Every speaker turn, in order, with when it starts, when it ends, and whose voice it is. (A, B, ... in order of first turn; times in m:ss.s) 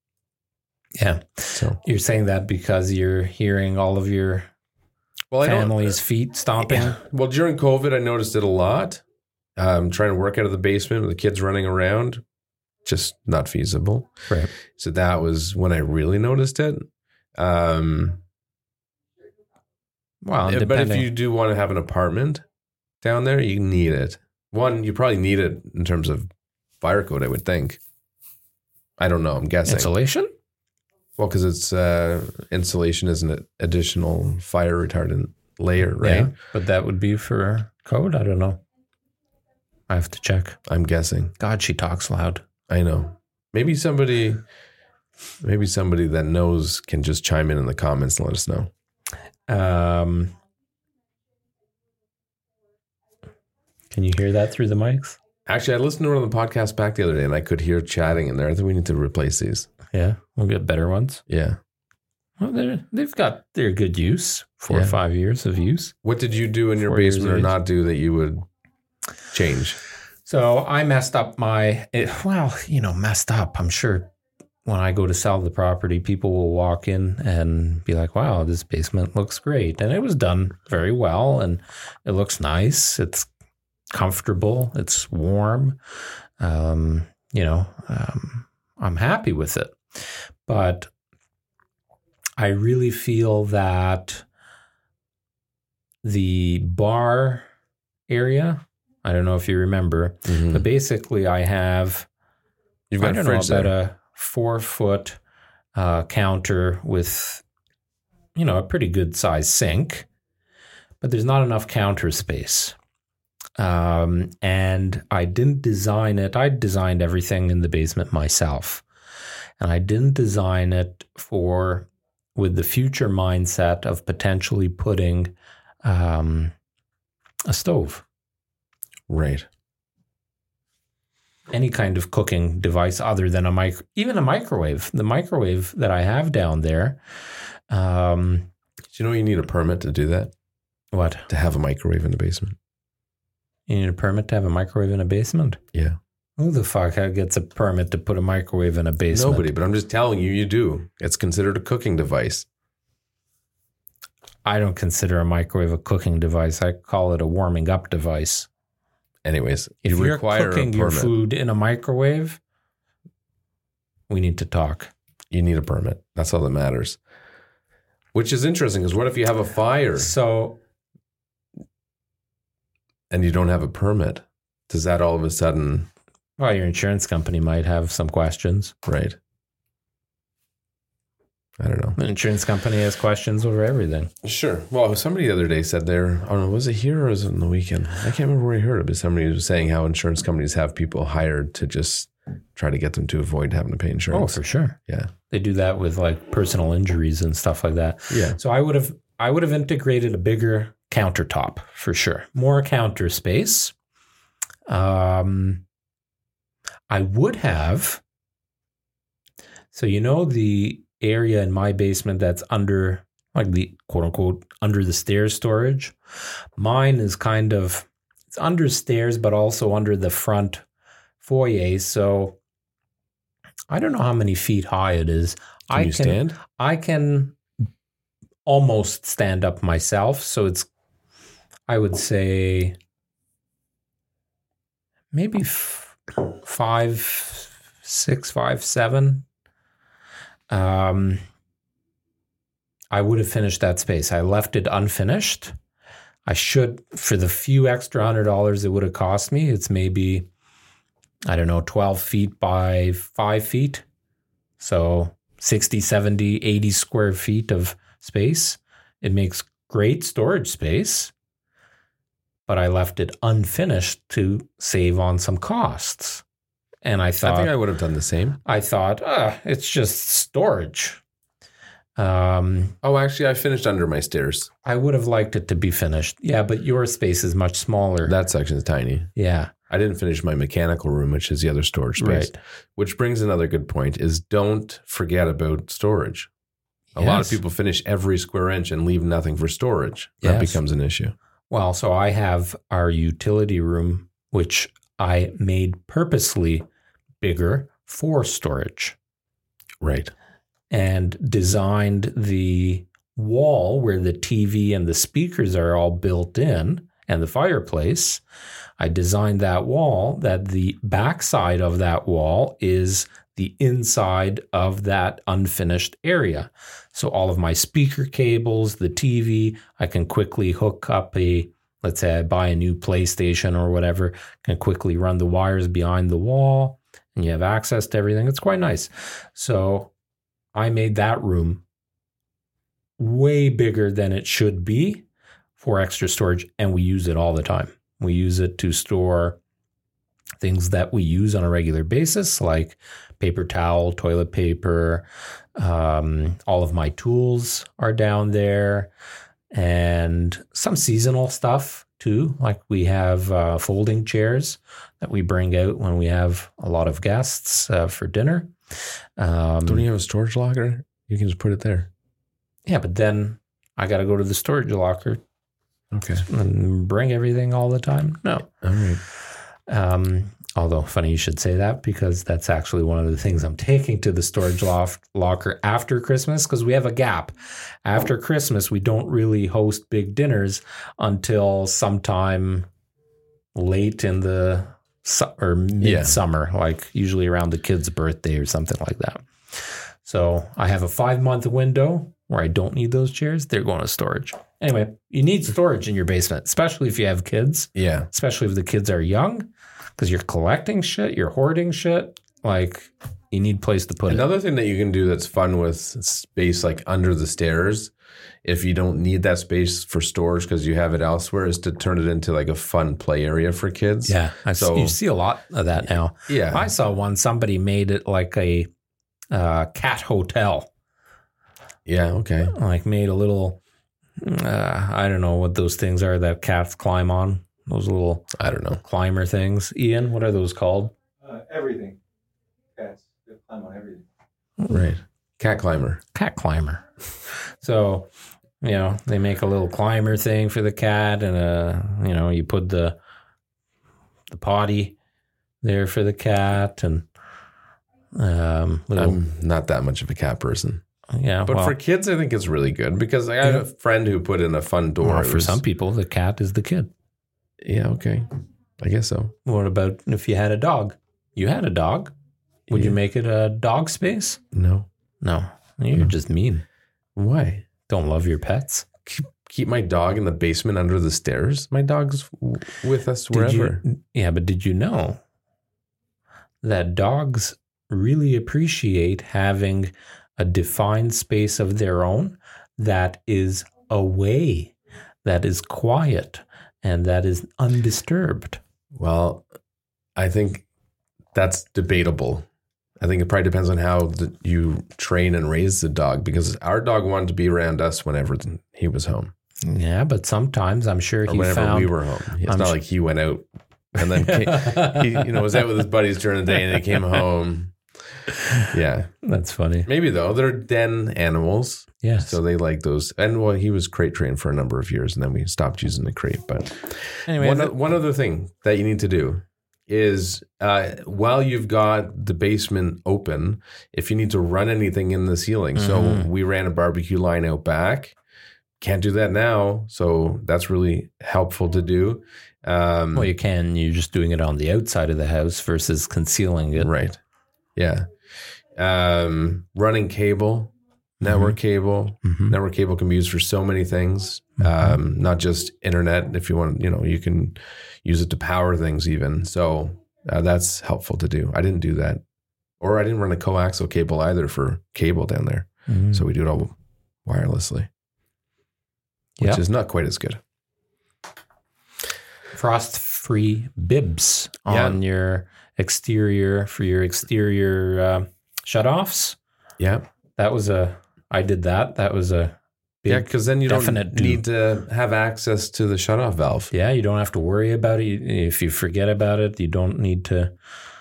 0:01.0-0:04.5 A
0:05.3-0:06.0 B
0:05.4-0:07.0 A
0:06.6-0:09.0 B
0:09.6-0:12.2 B
0:12.8-0:14.1 B
0:14.7-0:16.8 B
0:17.4-0:18.2 B
0:20.2-0:21.1 A
0:20.4-0:22.4 B
0:23.0-0:26.3 B
0:26.8-0:27.8 B
0:29.0-0:29.9 B
0:29.6-0:30.3 A
0:31.2-0:36.3 B
0:36.0-0:38.6 A
0:39.9-0:40.6 A
0:40.6-0:41.3 B
0:41.4-0:42.4 A
0:42.7-0:44.4 B
0:45.4-0:48.7 B
0:49.5-0:50.3 A
0:53.9-0:55.2 A
0:55.4-0:59.7 B
0:59.9-1:01.2 A
1:01.3-1:01.6 B
1:02.4-1:05.9 A
1:04.7-1:05.0 B
1:06.0-1:08.4 B
1:06.8-1:07.5 A
1:09.3-1:09.8 B
1:10.2-1:14.1 A
1:14.6-1:23.3 A
1:23.9-1:25.8 A
1:26.4-1:30.9 A
1:32.4-1:34.2 A
1:36.0-1:37.5 A
1:38.1-1:42.1 A
1:40.2-1:40.6 B
1:42.9-1:43.7 B
1:43.0-1:45.2 A
1:45.7-1:47.4 A
1:48.3-1:50.1 A
1:51.0-1:52.8 A
1:53.6-1:58.8 A
1:59.6-2:05.3 A
2:05.8-2:06.5 A
2:07.4-2:08.0 A
2:09.1-2:09.4 B
2:11.5-2:17.0 A
2:17.7-2:18.5 A
2:18.9-2:20.3 B
2:20.9-2:21.3 A
2:21.3-2:22.6 B
2:23.7-2:25.6 A
2:26.4-2:29.5 A
2:29.1-2:32.4 B
2:34.4-2:38.5 A
2:39.2-2:41.1 B
2:39.8-2:42.4 A
2:44.1-2:44.9 A
2:45.3-2:47.0 B
2:48.1-2:50.1 B
2:50.0-2:50.6 A
2:53.1-2:55.9 B
2:56.4-2:58.7 A
2:58.8-2:59.2 B
3:01.6-3:02.0 B
3:02.0-3:04.1 A
3:04.2-3:15.1 B
3:14.1-3:14.8 A
3:15.3-3:23.7 A
3:18.1-3:18.4 B
3:24.7-3:25.6 A
3:26.9-3:28.0 A
3:29.7-3:35.9 A
3:36.6-3:40.6 A
3:41.2-3:42.4 A
3:43.7-3:47.4 A
3:45.7-3:46.4 B
3:48.4-3:50.7 A
3:51.7-3:52.8 A
3:55.1-3:59.2 A
4:00.5-4:01.2 A
4:02.9-4:05.5 A
4:06.2-4:10.3 A
4:11.2-4:13.8 A
4:14.6-4:21.1 A
4:22.5-4:26.2 A
4:26.8-4:27.5 A
4:27.2-4:28.4 B
4:28.4-4:31.0 A
4:32.0-4:32.8 A
4:32.8-4:34.5 B
4:34.6-4:38.1 A
4:38.0-4:39.1 B
4:39.1-4:39.5 A
4:39.7-4:46.3 B
4:42.0-4:42.4 A
4:46.9-4:47.4 A
4:47.0-4:51.1 B
4:50.2-4:50.6 A
4:51.5-4:56.6 A
4:57.2-4:59.0 A
4:59.8-5:00.1 B
5:00.7-5:08.2 A
5:08.8-5:29.9 A
5:30.5-5:31.6 A
5:33.0-5:35.0 A
5:35.6-5:39.4 A
5:40.4-5:45.0 A
5:45.6-5:48.9 A
5:49.5-5:58.5 A
5:59.2-5:59.8 A
5:59.6-6:01.9 B
6:02.6-6:05.2 A
6:05.9-6:06.2 B
6:06.2-6:08.5 A
6:08.6-6:09.0 B
6:09.7-6:22.6 A
6:23.5-6:44.2 A
6:25.8-6:26.2 B
6:37.8-6:38.1 B
6:44.1-6:47.9 B
6:48.4-6:54.9 B
6:54.0-6:58.7 A
6:56.3-6:56.7 B
6:59.3-7:00.7 A
7:01.8-7:02.5 B
7:02.5-7:03.6 A
7:04.2-7:10.9 A
7:08.4-7:08.8 B
7:11.2-7:12.0 C
7:12.8-7:14.0 C
7:14.7-7:16.0 B
7:16.1-7:16.8 A
7:17.6-7:23.0 A
7:24.3-7:25.0 A
7:25.6-7:27.0 A
7:28.1-7:29.2 A
7:29.0-7:30.8 B
7:31.1-7:31.8 A
7:31.4-7:35.6 B
7:35.0-7:36.9 A
7:37.6-7:39.3 B
7:39.4-7:42.1 A
7:42.7-7:43.0 B
7:42.7-7:44.4 A
7:44.5-7:44.9 B
7:45.2-7:46.6 A
7:47.2-7:47.7 B
7:47.9-7:48.9 A
7:49.0-7:53.8 B
7:53.3-7:55.2 A
7:56.6-8:04.7 A
8:05.2-8:08.6 A
8:08.9-8:09.4 B
8:10.2-8:10.6 B
8:11.3-8:12.4 B
8:13.0-8:19.3 B
8:19.6-8:21.9 A
8:21.3-8:27.7 B
8:22.4-8:22.8 A
8:24.1-8:25.2 A
8:28.6-8:29.1 B
8:29.2-8:29.9 A
8:29.8-8:48.2 B
8:32.0-8:32.4 A
8:37.3-8:37.8 A
8:45.8-8:46.3 A
8:48.8-8:53.3 B
8:53.1-8:56.9 A
8:56.8-8:57.2 B
8:57.8-8:58.1 B
8:58.7-9:12.2 B
9:01.2-9:01.6 A
9:02.2-9:02.5 A
9:04.6-9:05.0 A
9:12.8-9:17.9 B
9:15.9-9:16.2 A
9:19.4-9:20.4 B
9:22.5-9:29.4 A
9:24.7-9:25.0 B
9:29.8-9:30.0 B
9:30.4-9:34.4 A
9:33.1-9:36.7 B
9:36.7-9:40.5 A